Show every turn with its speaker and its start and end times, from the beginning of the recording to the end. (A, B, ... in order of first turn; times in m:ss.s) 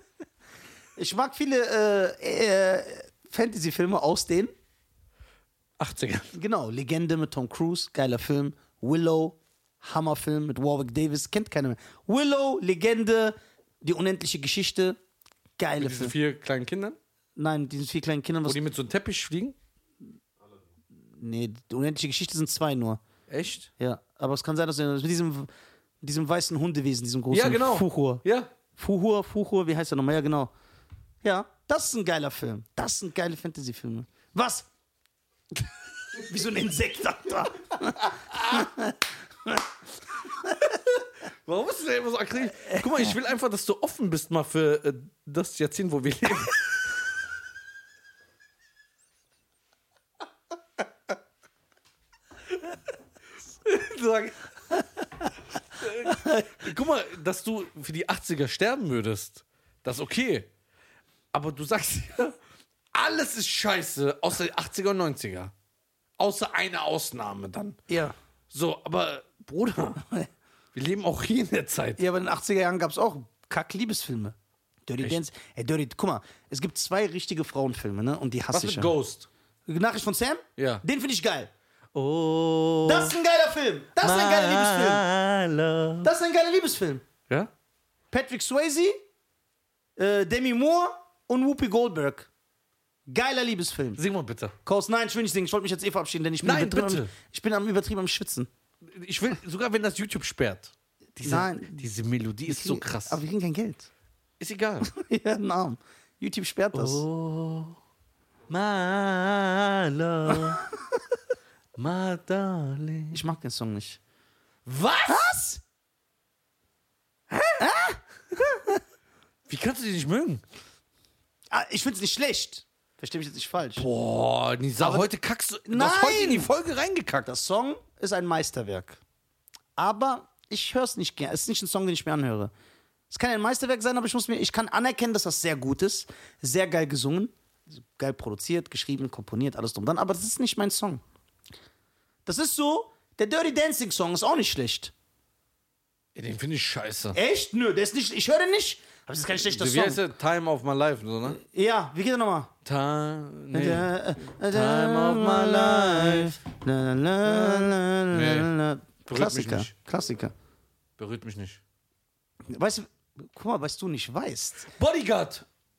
0:01.0-0:04.5 A
0:05.8-0:06.3 B
0:06.3-0:15.0 A
0:15.6-0:16.1 A
0:15.8-0:17.0 B
0:17.4-0:18.6 A
0:18.4-0:19.6 B
0:21.1-0:23.0 A
0:23.3-0:23.7 B
0:23.8-0:25.5 A
0:26.0-0:28.2 A
0:27.3-0:28.5 B
0:28.8-0:30.5 A
0:31.2-0:34.7 A
0:36.1-0:39.7 A
0:38.2-0:38.7 B
0:40.4-0:40.7 A
0:40.7-0:46.6 B
0:53.6-0:54.4 B
0:55.7-1:00.5 B
0:56.0-0:56.4 A
1:01.3-1:02.4 B
1:02.9-1:05.5 B
1:06.2-1:07.8 B
1:07.9-1:08.1 A
1:08.5-1:10.0 B
1:10.7-1:12.0 B
1:12.0-1:14.3 A
1:14.8-1:18.9 A
1:18.5-1:19.3 B
1:19.7-1:21.5 A
1:20.6-1:20.8 B
1:21.9-1:23.2 B
1:22.8-1:25.0 A
1:24.0-1:26.1 B
1:26.0-1:27.0 A
1:28.1-1:29.0 A
1:30.0-1:32.3 A
1:33.1-1:34.0 A
1:34.0-1:34.5 B
1:34.6-1:38.5 A
1:36.4-1:37.1 B
1:38.8-1:43.2 B
1:41.2-1:41.8 A
1:42.5-1:43.9 A
1:44.4-1:44.9 B
1:44.8-1:47.0 A
1:46.7-1:47.8 B
1:48.5-1:50.6 B
1:51.8-1:53.2 B
1:53.1-1:54.0 A
1:54.6-1:55.2 B
1:55.0-1:55.6 A
1:57.3-1:57.6 B
1:57.6-1:58.8 A
1:59.5-2:00.4 B
2:01.5-2:03.8 A
2:03.8-2:07.3 B
2:04.8-2:05.1 A
2:05.7-2:06.5 A
2:07.2-2:09.0 A
2:09.8-2:12.5 A
2:13.1-2:21.0 A
2:22.2-2:24.9 A
2:26.1-2:27.2 B
2:27.1-2:30.0 A
2:29.4-2:31.4 B
2:31.3-2:32.5 A
2:32.6-2:36.4 B
2:33.5-2:40.3 A
2:37.2-2:38.5 B
2:39.0-2:39.7 B
2:41.0-2:41.6 B
2:42.5-2:44.7 A
2:44.8-2:45.4 B